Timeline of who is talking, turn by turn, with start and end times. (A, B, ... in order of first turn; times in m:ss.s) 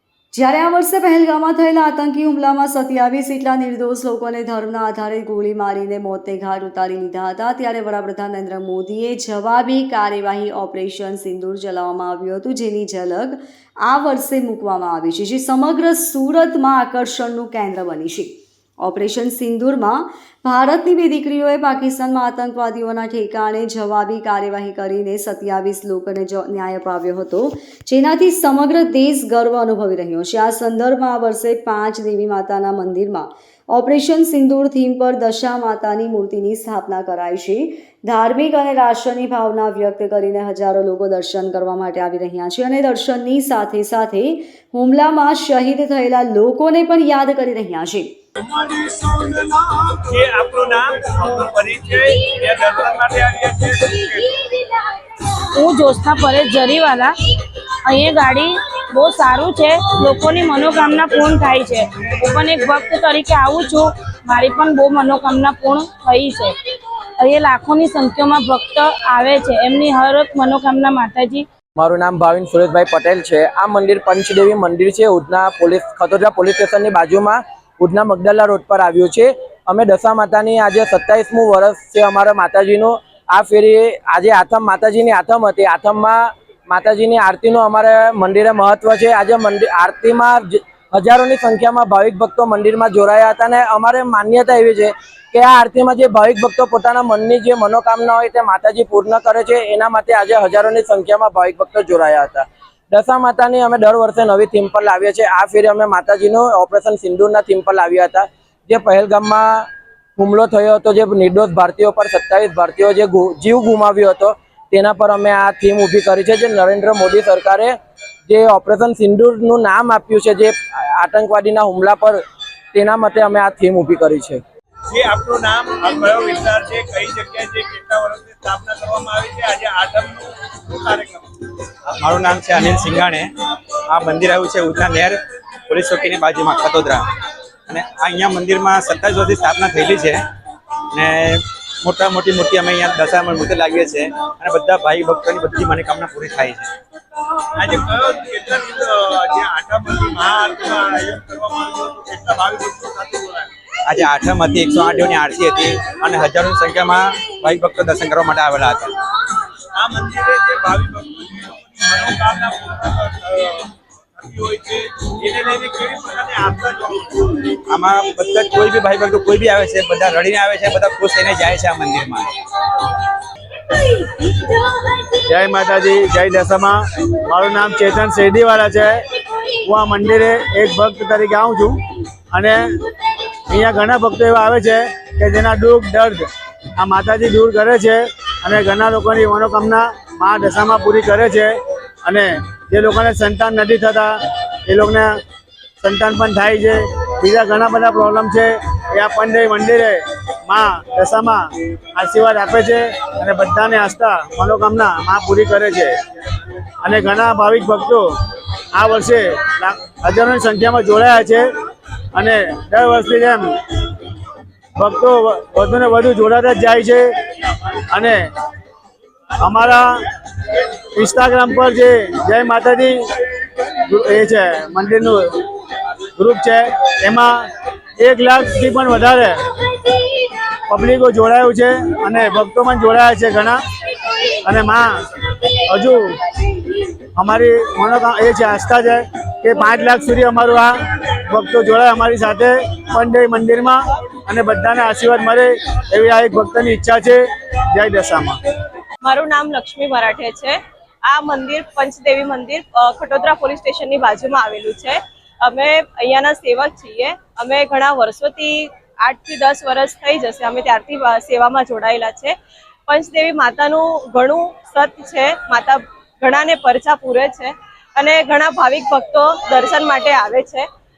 0:00.3-0:48.1 A
0:48.6-0:54.3 B
0:55.5-0:57.2 C
0:57.9-1:06.6 C
1:07.2-1:11.5 C
1:11.8-2:02.2 D
2:02.7-2:04.4 D
2:04.9-2:11.3 B
2:12.0-2:13.3 E
2:13.9-2:17.1 E
2:17.7-2:20.2 E
2:20.9-2:26.7 E
2:27.6-2:33.5 B
2:33.9-2:38.9 E
2:39.8-2:47.4 B
2:47.7-2:52.3 E
2:55.3-2:59.0 F
2:59.6-3:01.8 F
3:02.3-3:02.6 F
3:03.5-3:11.5 F
3:12.0-3:14.2 F
3:14.7-3:15.2 F
3:15.8-3:21.4 F
3:22.0-3:26.0 F
3:26.8-3:28.1 F
3:28.7-3:31.5 F
3:32.1-3:33.6 F
3:34.8-3:37.1 F
3:37.9-3:38.3 F
3:39.4-3:39.9 F
3:41.0-3:43.0 F
3:43.9-3:45.4 F
3:46.2-3:47.5 F
3:48.0-3:49.4 F
3:50.7-3:53.6 F
3:54.5-3:54.9 F
3:55.7-3:56.2 F
3:57.2-4:00.8 F
4:01.3-4:08.4 F
4:09.0-4:22.3 G
4:22.9-4:30.7 G